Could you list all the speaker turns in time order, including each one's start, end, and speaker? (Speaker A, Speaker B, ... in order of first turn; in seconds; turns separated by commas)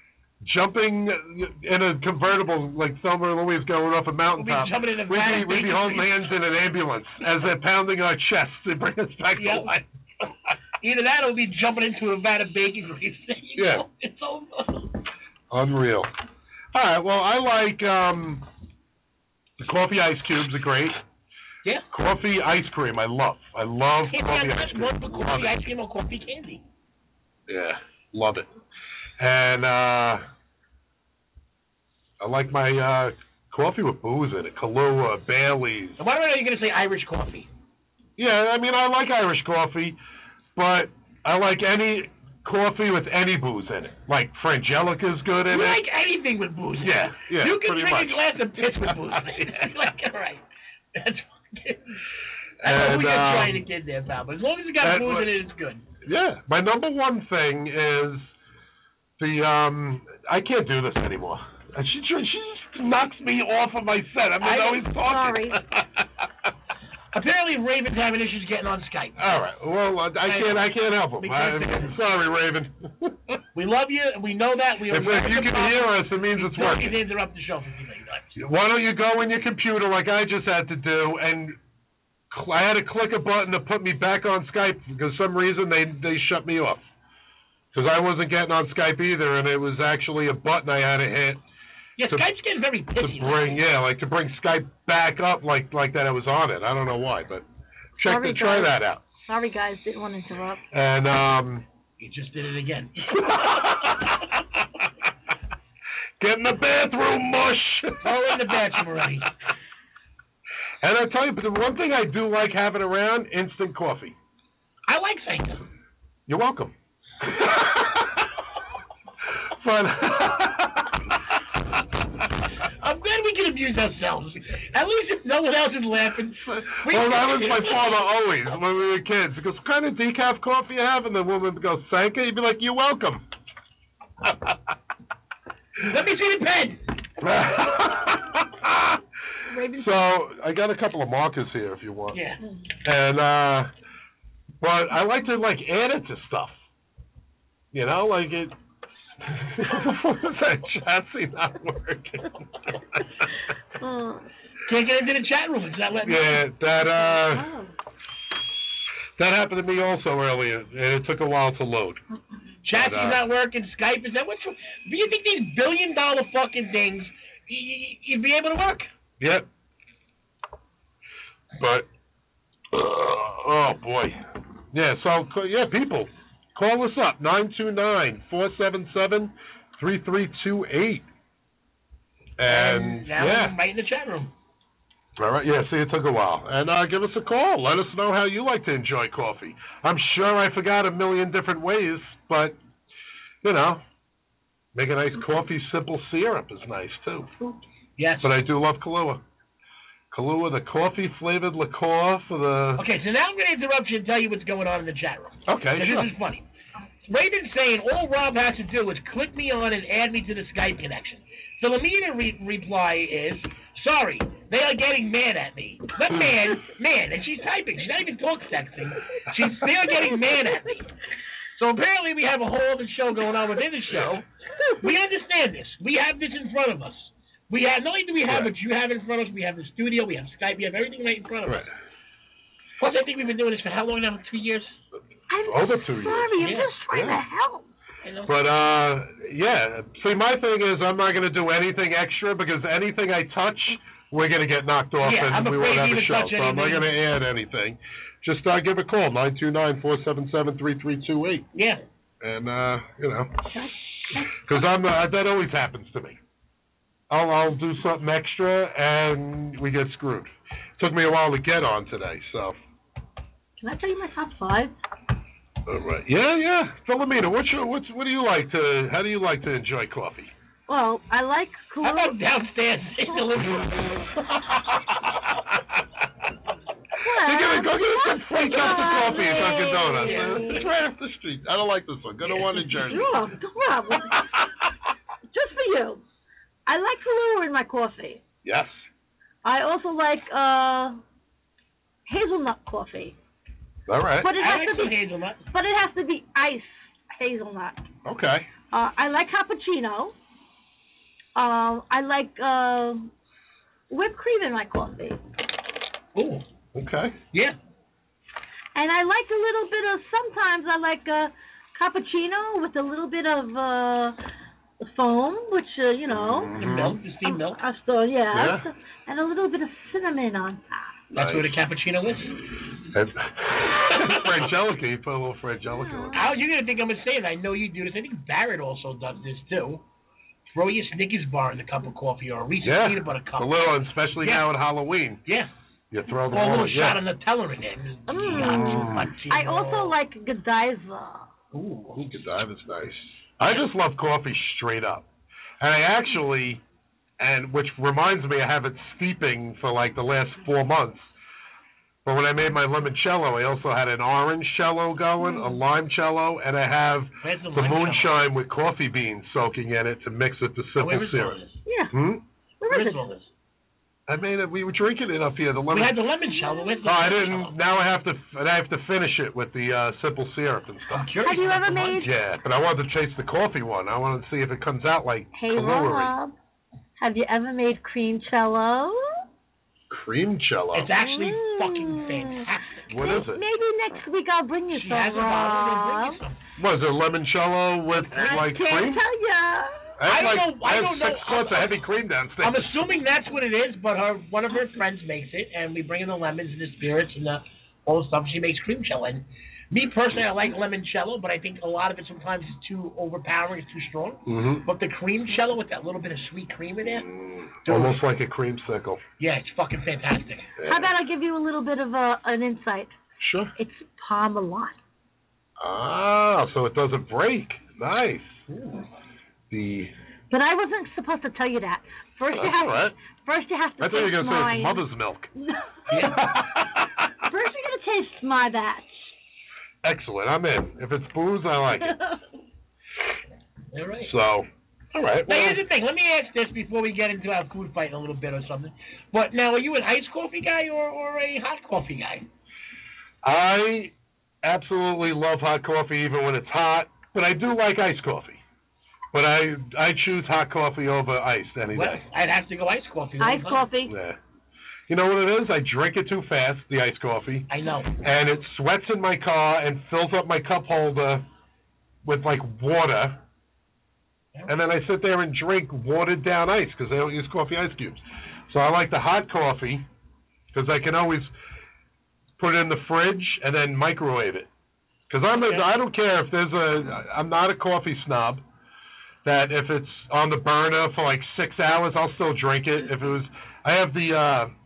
Speaker A: 0.4-9.8, Speaker B: 4.3-6.3, Speaker B: 9.4-9.7, Speaker B: 10.8-14.9, Speaker A: 13.6-13.8, Speaker A: 15.5-16.1, Speaker A: 16.7-18.4, Speaker A: 19.6-21.0, Speaker A: 21.9-25.6, Speaker B: 24.1-26.6, Speaker A: 27.5-28.5, Speaker A: 29.2-30.2, Speaker A: 32.2-36.0, Speaker B: 36.0-37.5, Speaker A: 38.2-40.0, Speaker A: 40.5-45.8, Speaker B: 45.5-50.4, Speaker A: 46.8-49.7, Speaker B: 50.9-51.9, Speaker B: 52.6-55.8, Speaker A: 52.6-53.6, Speaker A: 54.8-55.3, Speaker A: 56.0-58.3, Speaker A: 59.2-66.2, Speaker B: 64.4-64.9, Speaker C: 64.9-65.6, Speaker B: 67.1-69.2, Speaker A: 69.2-73.4, Speaker B: 70.2-72.0, Speaker B: 73.5-78.3, Speaker A: 74.9-77.0, Speaker A: 78.3-81.6, Speaker A: 82.3-86.8, Speaker A: 87.7-91.4, Speaker B: 92.0-93.6, Speaker A: 93.0-97.5, Speaker A: 98.0-99.0, Speaker C: 98.0-100.6, Speaker A: 100.7-101.6, Speaker B: 102.0-103.8, Speaker A: 103.2-104.2, Speaker A: 106.2-108.5, Speaker B: 108.0-109.3, Speaker A: 110.8-114.2, Speaker B: 114.9-115.6, Speaker A: 116.3-118.3, Speaker A: 119.3-121.2, Speaker B: 122.6-127.8, Speaker A: 126.4-133.2, Speaker A: 134.2-134.5, Speaker B: 135.9-136.8, Speaker A: 137.2-139.0, Speaker C: 139.5-140.0, Speaker A: 139.7-142.2, Speaker B: 142.1-142.4, Speaker A: 142.8-143.7, Speaker A: 144.6-146.6, Speaker A: 147.7-148.5, Speaker A: 149.2-153.0, Speaker C: 153.8-154.2, Speaker B: 154.7-156.4, Speaker A: 156.1-157.5, Speaker C: 156.7-157.7, Speaker A: 159.2-162.0, Speaker B: 162.6-168.9, Speaker A: 162.7-163.2, Speaker A: 169.2-169.5, Speaker A: 171.6-171.9, Speaker A: 172.7-181.1, Speaker A: 182.4-183.6, Speaker B: 182.4-184.3, Speaker A: 185.2-192.6, Speaker A: 193.4-193.8, Speaker A: 194.7-197.3, Speaker B: 198.0-198.3, Speaker A: 198.2-199.2, Speaker A: 200.1-202.8, Speaker B: 202.8-206.4, Speaker A: 205.4-206.1, Speaker B: 207.1-220.9, Speaker B: 221.5-224.3, Speaker B: 224.8-231.6, Speaker A: 231.4-231.7, Speaker B: 232.8-234.8, Speaker C: 235.3-237.7, Speaker A: 235.4-237.2, Speaker B: 236.4-236.7, Speaker B: 238.0-238.4, Speaker A: 238.3-251.4, Speaker B: 245.0-246.9, Speaker B: 251.5-251.8, Speaker A: 252.2-253.5, Speaker C: 253.5-254.4, Speaker A: 254.3-256.2, Speaker A: 257.1-262.6, Speaker C: 263.6-264.7, Speaker A: 265.6-270.3, Speaker C: 270.7-272.1, Speaker B: 271.8-274.6, Speaker C: 277.0-280.6, Speaker A: 277.1-283.2, Speaker B: 280.0-280.6, Speaker B: 282.2-282.9, Speaker C: 282.8-284.2, Speaker A: 284.1-284.4, Speaker C: 285.3-286.0, Speaker C: 286.6-288.2, Speaker A: 288.4-288.9, Speaker C: 289.4-291.0, Speaker C: 292.1-293.1, Speaker A: 293.9-294.3, Speaker C: 294.2-295.0, Speaker B: 294.4-295.4, Speaker C: 295.5-297.8, Speaker A: 298.0-298.5, Speaker C: 298.7-300.1, Speaker C: 301.4-303.1, Speaker C: 303.9-305.2, Speaker B: 306.1-306.4, Speaker A: 306.7-307.1, Speaker B: 307.3-307.6, Speaker C: 308.7-314.2, Speaker C: 314.8-316.5, Speaker A: 316.1-317.0, Speaker B: 316.5-317.6, Speaker C: 317.2-321.0, Speaker A: 318.3-318.7, Speaker B: 321.1-322.3, Speaker A: 321.1-321.5, Speaker A: 322.9-326.2, Speaker C: 325.8-326.3, Speaker B: 326.1-329.8, Speaker B: 330.5-334.5, Speaker A: 332.6-335.2, Speaker B: 335.2-335.5, Speaker A: 335.9-337.0, Speaker B: 336.3-340.0, Speaker C: 338.1-341.3, Speaker A: 338.4-339.1, Speaker B: 341.5-342.0, Speaker A: 341.9-345.1, Speaker A: 345.6-346.6, Speaker A: 347.2-351.1, Speaker A: 352.0-361.4, Speaker C: 355.2-355.6, Speaker B: 357.2-358.2, Speaker B: 360.8-361.6, Speaker C: 361.6-361.9, Speaker A: 361.9-362.2, Speaker C: 362.6-363.0, Speaker B: 362.7-363.3, Speaker A: 364.1-365.9, Speaker B: 365.7-367.6, Speaker C: 366.5-366.8, Speaker A: 366.8-371.1, Speaker B: 370.9-372.1, Speaker C: 371.2-372.1, Speaker A: 372.0-376.1, Speaker C: 375.3-376.3, Speaker C: 377.0-379.1, Speaker A: 379.9-380.9, Speaker B: 380.7-382.9, Speaker C: 380.9-386.2, Speaker A: 382.9-383.4, Speaker B: 384.7-386.4, Speaker A: 386.6-389.0, Speaker C: 388.0-389.9, Speaker A: 390.0-392.7, Speaker B: 390.1-391.8, Speaker B: 392.4-407.1, Speaker A: 404.2-404.6, Speaker A: 407.0-409.0, Speaker B: 407.6-408.0, Speaker B: 409.2-410.5, Speaker A: 410.6-410.9, Speaker C: 410.6-412.9, Speaker A: 413.2-413.5, Speaker C: 413.6-414.8, Speaker A: 415.6-418.4, Speaker B: 418.5-418.8, Speaker A: 419.5-419.9, Speaker C: 420.3-424.9, Speaker A: 422.3-422.9, Speaker A: 423.8-425.3, Speaker C: 425.4-426.2, Speaker B: 425.9-426.2, Speaker A: 426.0-427.1, Speaker C: 427.3-429.1, Speaker A: 429.8-432.0, Speaker C: 431.9-432.1, Speaker B: 433.7-434.1, Speaker A: 434.0-435.6, Speaker B: 435.3-442.3, Speaker A: 443.2-448.4, Speaker A: 449.1-452.0, Speaker B: 451.7-453.7, Speaker C: 453.2-453.9, Speaker A: 453.9-454.2, Speaker A: 454.9-457.5, Speaker B: 457.5-457.9, Speaker A: 458.0-461.2, Speaker A: 462.0-463.2, Speaker A: 464.5-469.9, Speaker A: 470.5-471.3, Speaker A: 472.4-474.5, Speaker A: 475.1-478.4, Speaker B: 475.4-475.6, Speaker A: 479.2-484.5